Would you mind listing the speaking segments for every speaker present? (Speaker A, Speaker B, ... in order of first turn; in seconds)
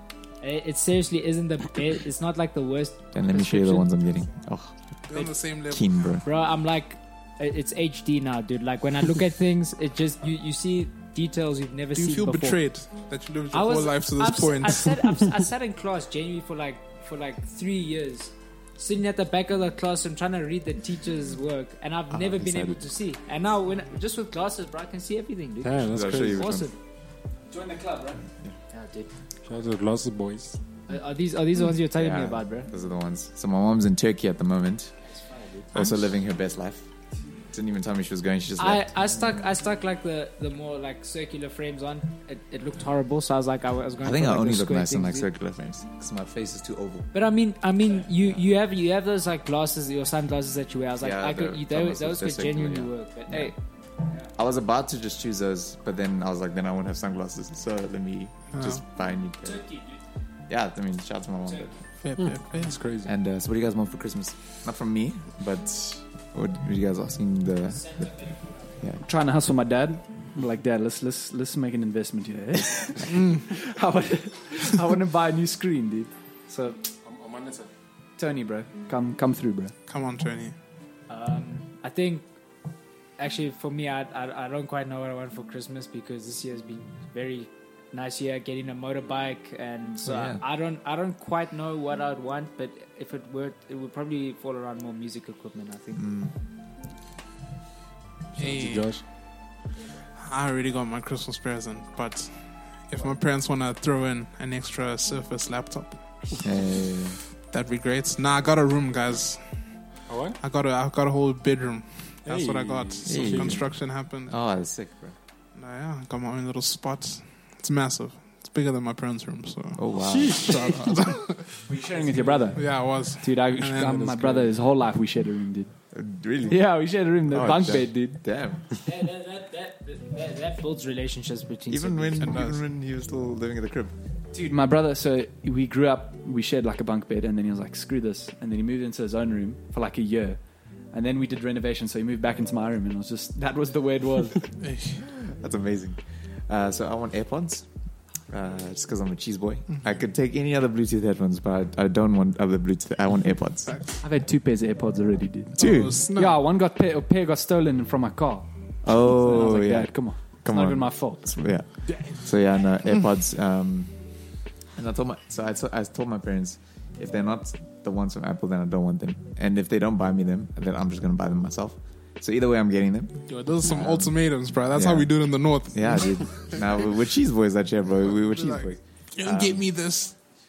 Speaker A: 0.4-3.9, 6.2-12.6, 13.5-26.8, 28.7-29.1, 30.9-32.7, 35.1-35.7, 38.6-45.3, 47.1-53.6, 59.4-60.0, 67.7-68.8, 81.1-82.3, 83.2-96.0, 128.8-132.3
Speaker B: 3.1-5.1, 5.6-6.2, 22.1-22.8, 25.9-26.7, 31.9-35.0, 35.7-36.9, 37.5-39.1, 44.0-47.1, 51.0-53.5, 54.2-59.7, 60.5-61.8, 63.0-68.1, 90.0-90.4, 95.9-96.3, 106.4-107.2, 113.0-115.2, 119.7-121.0, 125.9-128.7, 131.7-133.9, 145.1-153.8, 155.5-156.0, 158.8-179.8
Speaker C: 5.1-6.0, 11.9-14.9, 58.5-58.8, 62.0-62.8, 73.1-73.4, 79.9-80.5, 98.4-99.1, 100.1-106.3, 107.4-114.3, 115.5-121.5, 122.5-124.0, 132.2-132.6, 144.6-145.1, 153.7-154.0, 155.6-156.4, 173.3-176.6, 178.2-180.2
Speaker D: 25.6-26.6, 29.4-30.6, 62.2-63.1, 77.0-77.7, 98.3-99.1, 110.1-110.4, 112.2-113.7, 120.0-120.5, 122.1-122.4, 123.7-124.6, 161.9-162.2
Speaker E: 27.5-28.2, 69.0-76.9, 78.2-79.7, 121.7-125.8, 126.5-128.2, 134.3-144.5, 154.0-161.2